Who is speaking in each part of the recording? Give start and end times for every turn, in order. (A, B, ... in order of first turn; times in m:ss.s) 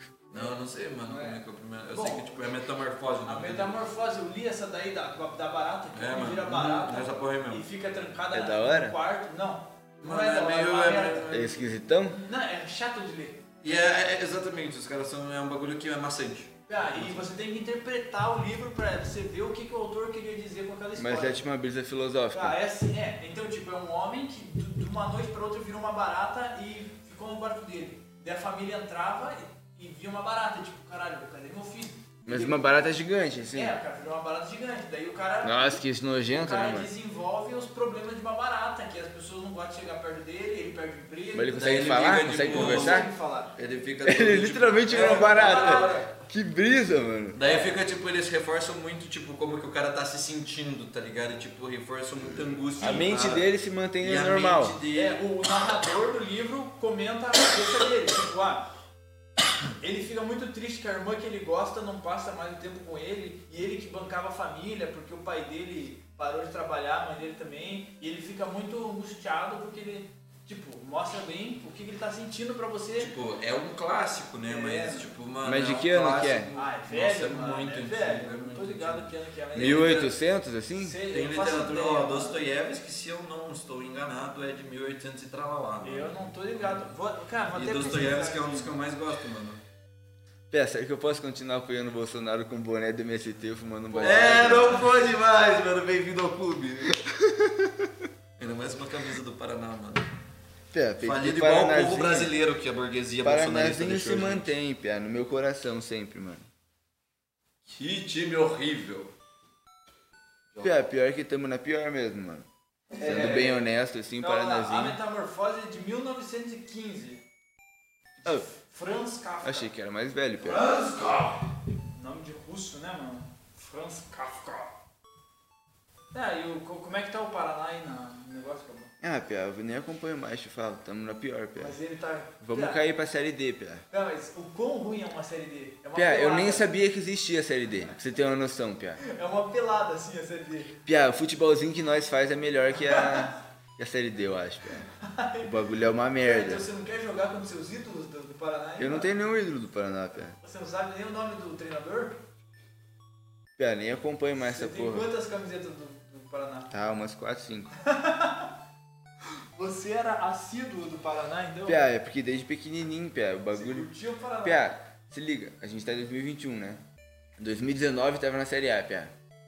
0:00.3-0:03.8 A
0:01.0-0:01.4 B
0:01.9-0:02.3 B
0:03.2-0:13.4 B
0:05.9-0:07.6 A
0:08.3-0:09.0 C
0:10.0-0:11.4 A
0:11.3-0:12.2 C
0:13.6-0:17.2 A
0:16.7-0:21.4 B
0:21.0-0:22.6 C
0:22.3-0:32.7 B
0:32.2-0:33.7 C
0:33.5-0:35.8 B
0:35.4-0:36.9 C
0:36.3-0:43.5 B
0:41.3-0:43.1 C
0:41.5-0:46.0 A
0:44.0-0:47.4 C
0:44.9-0:46.1 B
0:47.3-0:53.5 A
0:47.4-0:47.8 B
0:52.8-0:54.8 C
0:54.0-0:55.2 A
0:54.9-0:58.6 B
0:59.8-1:13.1 B
1:13.0-1:20.1 A
1:14.4-1:15.1 B
1:15.4-1:16.5 C
1:16.5-1:20.1 B
1:19.5-1:21.0 C
1:20.7-1:22.4 B
1:21.1-1:26.2 A
1:25.8-1:28.8 B
1:27.5-1:29.6 A
1:30.5-1:34.9 C
1:34.0-1:37.0 A
1:37.0-1:37.9 C
1:38.4-1:40.1 A
1:40.7-1:42.3 C
1:41.0-1:44.5 A
1:43.2-1:46.4 C
1:47.6-1:49.1 A
1:50.5-1:50.8 A
1:50.6-1:52.4 C
1:52.9-1:53.6 A
1:53.0-1:55.0 C
1:54.2-1:57.2 B
1:58.2-1:59.7 B
1:59.4-2:00.7 C
2:00.4-2:01.4 A
2:01.9-2:04.7 B
2:06.1-2:08.9 B
2:09.0-2:11.8 C
2:11.6-2:12.8 B
2:12.4-2:13.8 C
2:13.9-2:16.7 B
2:15.9-2:19.0 C
2:19.0-2:20.8 B
2:20.8-2:24.8 C
2:22.9-2:23.3 B
2:25.0-2:25.5 B
2:25.4-2:26.6 C
2:26.2-2:29.1 B
2:28.8-2:30.4 C
2:30.4-2:32.2 B
2:33.6-2:35.1 C
2:34.4-2:36.7 B
2:36.7-2:37.7 C
2:37.8-2:38.5 B
2:39.6-2:41.8 B
2:41.6-2:43.9 C
2:43.5-2:44.6 B
2:44.4-2:46.8 C
2:47.4-2:49.1 C